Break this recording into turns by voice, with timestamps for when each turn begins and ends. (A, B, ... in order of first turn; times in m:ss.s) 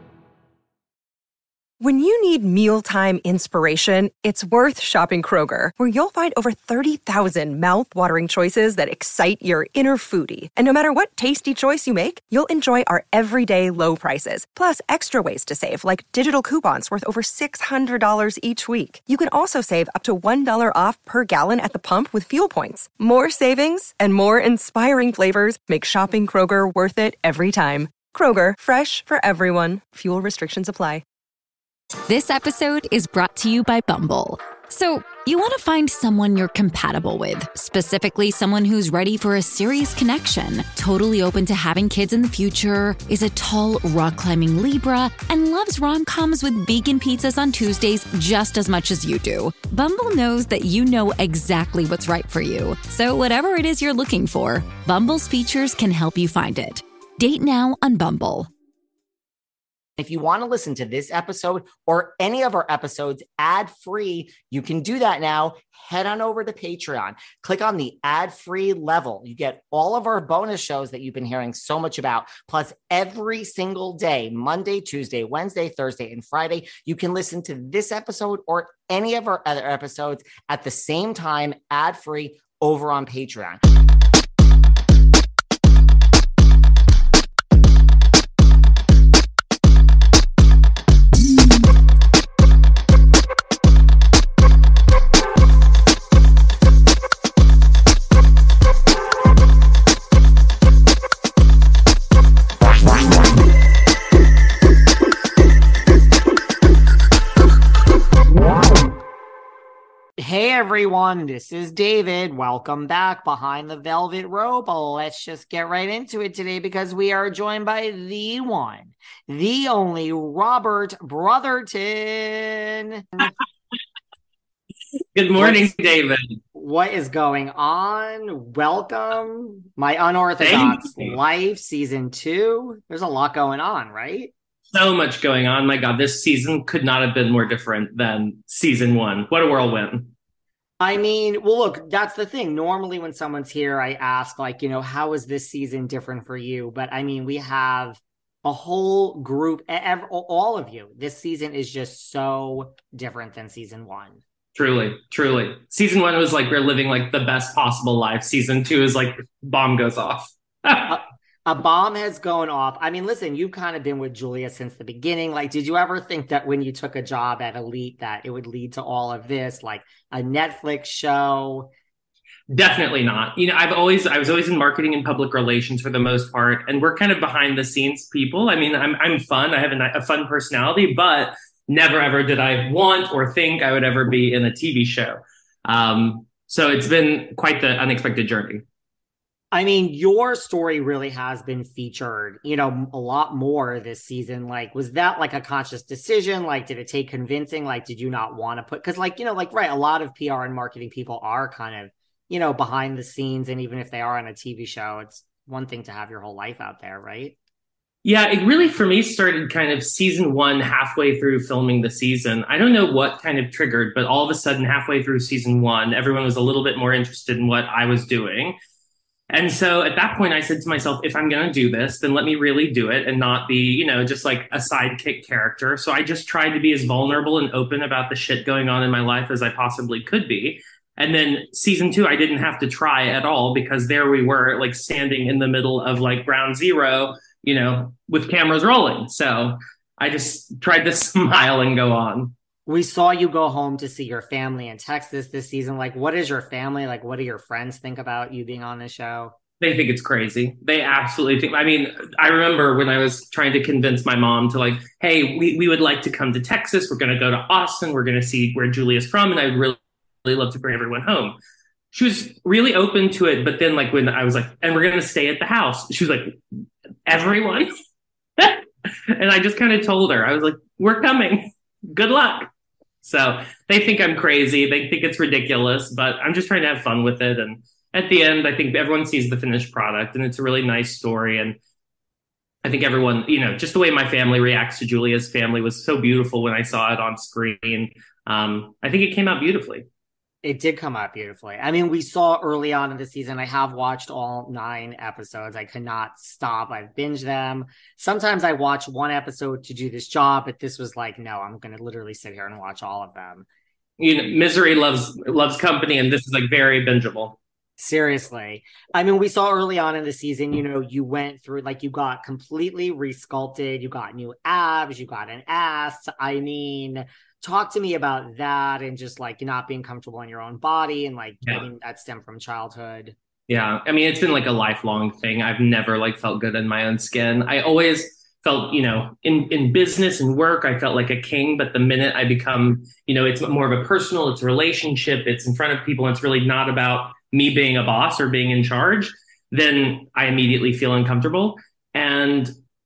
0:01.8-0:31.0 A
0:32.1-0:58.5 B
1:00.0-1:23.6 C
1:50.2-2:03.3 C
2:05.2-2:06.4 D
2:05.4-2:05.7 C
2:06.5-2:14.3 C
2:10.4-2:11.2 D
2:14.7-2:20.1 D
2:20.8-2:34.2 C
2:34.6-2:40.9 D
2:40.9-2:51.7 C
2:52.5-3:08.6 D
3:09.5-3:27.4 C
3:28.0-3:38.6 D
3:39.3-4:02.3 D
4:02.7-4:09.3 C
4:09.6-4:21.4 D
4:21.9-4:26.4 D
4:27.1-4:27.7 D
4:28.4-4:32.5 D
4:33.0-4:41.6 D
4:42.6-4:49.8 D
4:50.4-5:03.5 C
5:04.0-5:07.4 D
5:07.8-5:23.2 C
5:23.5-5:42.5 D